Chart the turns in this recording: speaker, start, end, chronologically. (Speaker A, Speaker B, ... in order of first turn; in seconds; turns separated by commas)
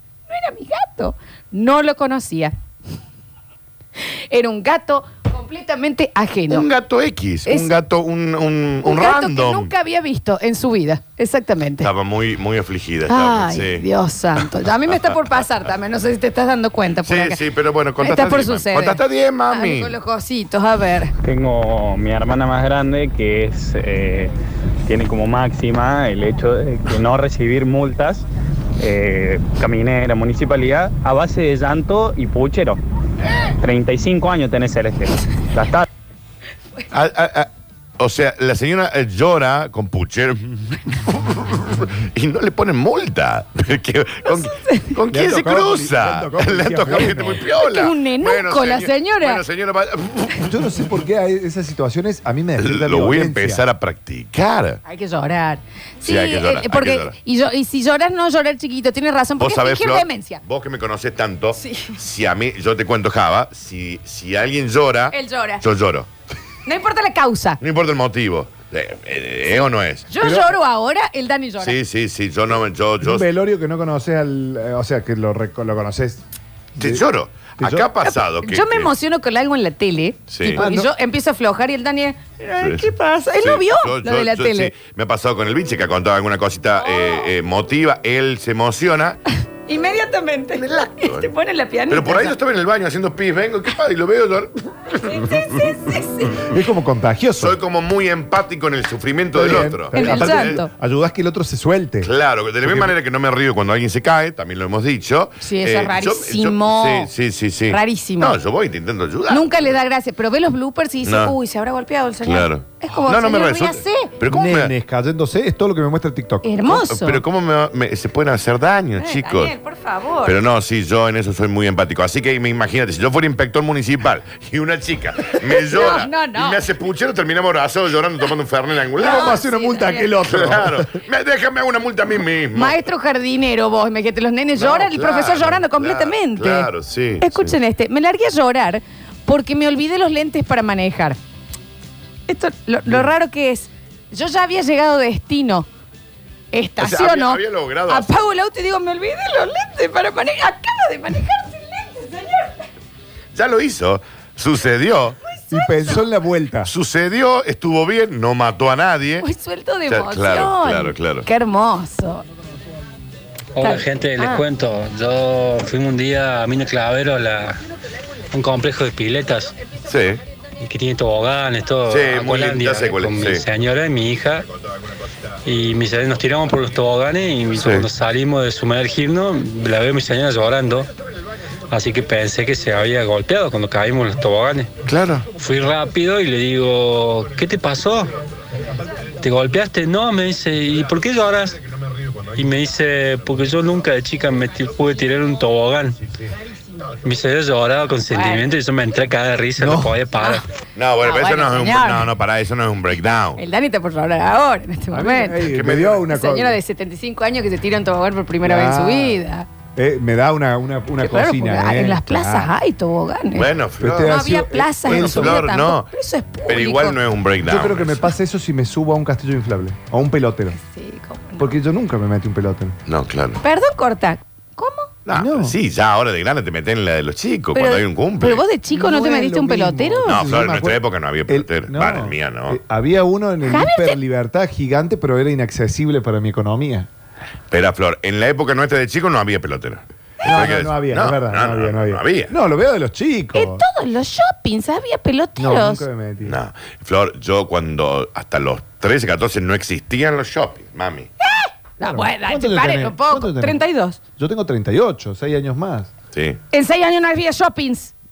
Speaker A: 0.3-2.5, Speaker A: 4.3-6.7, Speaker B: 6.5-9.7, Speaker A: 7.5-7.7, Speaker A: 8.8-11.9, Speaker B: 11.8-13.8, Speaker A: 13.1-17.4, Speaker B: 17.0-19.9, Speaker A: 18.0-21.1, Speaker C: 21.2-24.3, Speaker C: 24.9-28.2, Speaker C: 28.8-32.8, Speaker B: 33.2-33.5, Speaker C: 33.6-35.9, Speaker B: 36.9-50.5, Speaker A: 44.3-44.9, Speaker D: 45.1-47.5, Speaker A: 47.5-49.4, Speaker D: 50.4-53.6, Speaker B: 52.6-54.8, Speaker A: 54.9-60.4, Speaker B: 56.0-57.1, Speaker B: 59.4-66.1, Speaker A: 61.5-61.9, Speaker A: 65.1-65.6, Speaker A: 66.7-67.6, Speaker B: 67.6-70.1, Speaker A: 70.1-71.8, Speaker D: 70.2-70.5, Speaker B: 71.6-73.2, Speaker D: 73.0-76.2, Speaker D: 76.8-77.0, Speaker B: 76.8-78.9, Speaker D: 77.6-77.9, Speaker A: 78.0-84.7, Speaker B: 80.3-80.6, Speaker D: 80.4-80.9, Speaker B: 82.6-82.8, Speaker B: 83.4-89.2, Speaker A: 86.8-87.3, Speaker A: 89.7-92.4, Speaker B: 90.5-91.3, Speaker B: 91.9-95.8, Speaker A: 95.0-96.5, Speaker D: 96.4-97.6, Speaker B: 97.4-100.6, Speaker D: 99.3-102.1, Speaker A: 99.9-100.7, Speaker B: 102.0-109.5, Speaker D: 102.6-102.9, Speaker A: 105.4-107.1, Speaker A: 107.7-108.4, Speaker A: 109.3-114.1, Speaker B: 111.0-111.3, Speaker B: 112.2-114.7, Speaker D: 114.2-116.5, Speaker A: 116.4-117.2, Speaker B: 116.7-119.5, Speaker A: 119.0-120.4, Speaker B: 120.2-129.3, Speaker A: 125.5-126.6, Speaker A: 129.0-130.2, Speaker D: 129.0-131.0, Speaker B: 130.3-132.8, Speaker A: 132.5-136.7, Speaker B: 134.6-137.5, Speaker A: 137.2-141.2, Speaker A: 142.3-145.7, Speaker A: 146.5-152.7, Speaker B: 146.8-148.1, Speaker B: 153.3-155.2, Speaker A: 155.3-156.0, Speaker D: 155.5-156.7, Speaker B: 156.7-159.2, Speaker A: 159.2-162.2, Speaker B: 159.9-161.2, Speaker E: 163.5-167.6, Speaker A: 163.6-164.4, Speaker E: 168.3-169.5, Speaker B: 169.9-170.2, Speaker E: 170.6-174.5, Speaker B: 171.9-173.4, Speaker E: 175.4-180.9, Speaker B: 177.6-177.9, Speaker E: 181.7-184.7, Speaker B: 184.8-185.2, Speaker E: 185.3-188.1, Speaker E: 189.2-191.6, Speaker E: 192.3-196.0, Speaker E: 197.0-200.4, Speaker A: 198.1-198.5, Speaker D: 199.6-199.9, Speaker B: 200.8-203.4, Speaker A: 201.0-202.1, Speaker A: 203.3-205.5, Speaker D: 204.9-206.6, Speaker B: 205.4-206.0, Speaker A: 206.1-209.5, Speaker D: 208.4-209.2, Speaker D: 209.8-212.5, Speaker A: 211.0-213.5, Speaker B: 213.3-214.2, Speaker D: 213.8-215.5, Speaker A: 214.0-217.0, Speaker B: 214.8-215.9, Speaker B: 216.5-218.1, Speaker D: 217.4-220.6, Speaker A: 220.6-221.5, Speaker D: 221.4-222.8, Speaker B: 222.8-223.4, Speaker A: 223.4-224.9, Speaker B: 225.1-228.4, Speaker D: 225.1-225.6, Speaker A: 227.5-230.3, Speaker D: 228.7-236.9, Speaker B: 230.1-232.6, Speaker A: 233.4-234.0, Speaker B: 237.5-242.3, Speaker D: 240.2-243.6, Speaker A: 243.3-245.8, Speaker D: 245.4-246.4, Speaker B: 246.2-251.1, Speaker A: 251.2-254.0, Speaker D: 251.8-253.6, Speaker D: 254.2-255.9, Speaker B: 256.1-256.4, Speaker A: 256.5-257.9